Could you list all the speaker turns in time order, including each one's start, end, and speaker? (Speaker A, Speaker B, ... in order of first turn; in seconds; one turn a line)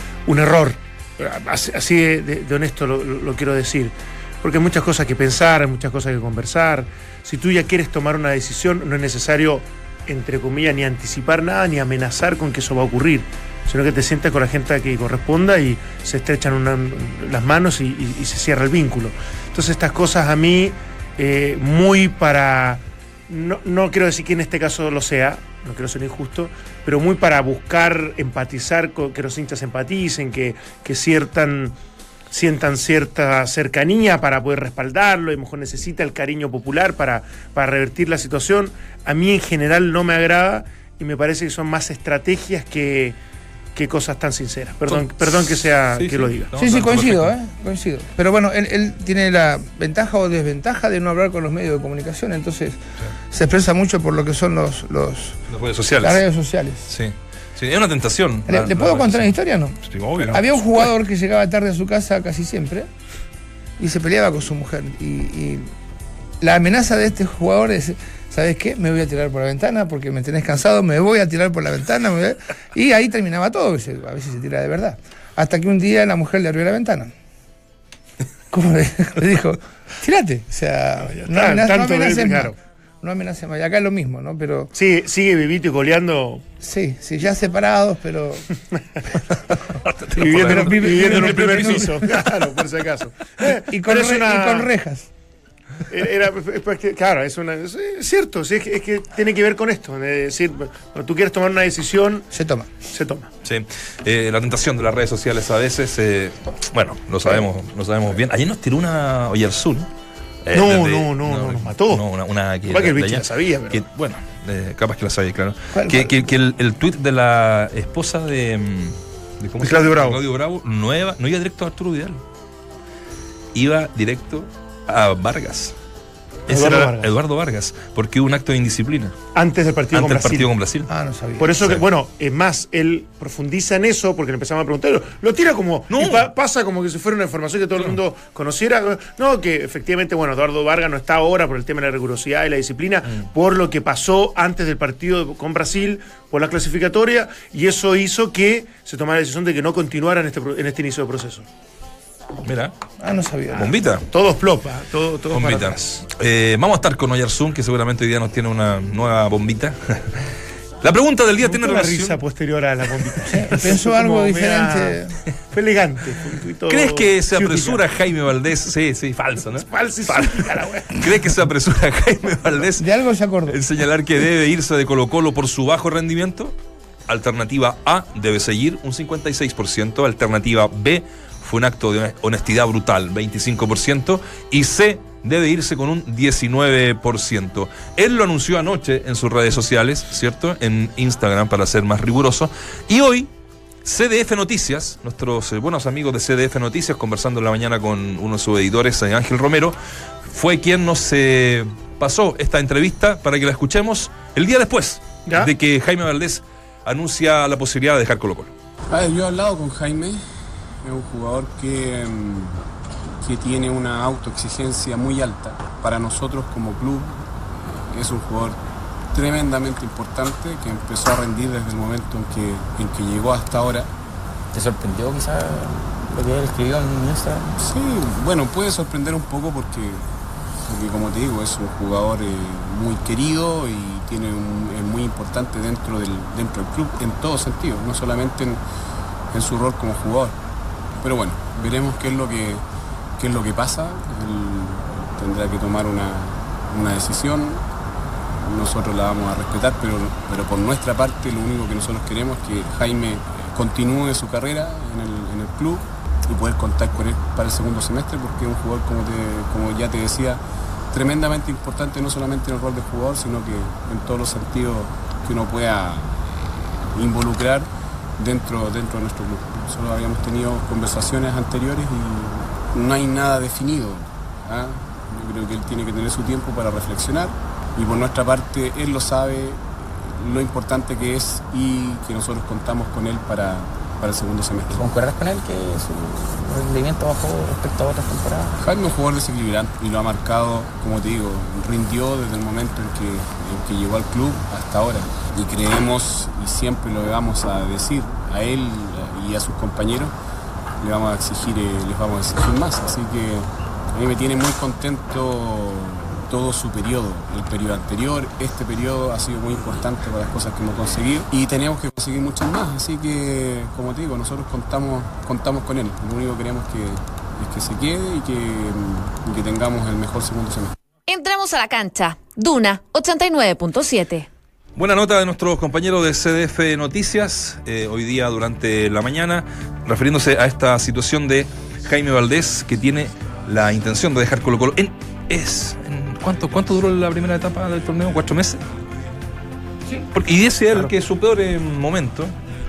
Speaker A: 0.3-31.8
Speaker A: 32.3-43.2
Speaker A: 43.8-46.5
Speaker B: 44.9-47.3
Speaker C: 46.6-52.8
Speaker C: 53.3-55.4
Speaker B: 55.5-56.2
Speaker C: 56.0-56.9
Speaker B: 56.9-60.9
Speaker C: 58.5-62.9
Speaker C: 63.8-65.7
Speaker C: 66.4-77.1
Speaker C: 78.5-84.7
Speaker A: 81.1-82.5
Speaker A: 84.7-86.4
Speaker C: 86.6-88.5
Speaker B: 89.8-92.2
Speaker A: 90.2-94.7
Speaker C: 90.4-91.9
Speaker C: 93.7-95.1
Speaker A: 95.9-102.3
Speaker C: 102.3-102.7
Speaker A: 102.9-103.3
Speaker B: 103.5-109.9
Speaker B: 110.5-122.2
Speaker A: 110.5-112.0
Speaker A: 112.7-113.8
Speaker C: 115.7-116.1
Speaker A: 119.6-120.2
Speaker B: 123.5-125.8
Speaker B: 126.5-129.2
Speaker A: 126.5-127.1
Speaker A: 129.3-130.5
Speaker B: 129.9-130.9
Speaker C: 130.9-131.5
Speaker A: 131.4-151.5
Speaker B: 135.9-136.3
Speaker B: 152.4-152.7
Speaker C: 153.0-153.7
Speaker B: 153.6-154.1
Speaker A: 154.1-156.0
Speaker B: 155.3-160.1
Speaker B: 160.8-162.2
Speaker A: 161.4-165.0
Speaker C: 163.3-165.2
Speaker A: 165.5-167.8
Speaker B: 166.7-172.8
Speaker A: 169.6-171.1
Speaker C: 172.8-173.6
Speaker B: 173.5-176.5
Speaker B: 177.1-193.3
Speaker B: 193.8-199.8
Speaker B: 200.3-208.5
Speaker D: 208.9-210.2
Speaker D: 210.8-212.6
Speaker D: 213.2-218.6
Speaker D: 219.1-223.9
Speaker E: 224.5-227.6
Speaker D: 227.6-230.0
Speaker D: 230.7-238.6
Speaker D: 239.3-240.4
Speaker D: 241.0-242.6
Speaker D: 243.2-247.6
Speaker D: 248.3-260.4
Speaker D: 260.9-284.9
Speaker E: 284.7-288.6
Speaker D: 288.6-300.1
Speaker D: 300.8-320.8
Speaker F: 321.1-324.3
Speaker B: 324.8-338.6
Speaker B: 340.1-342.3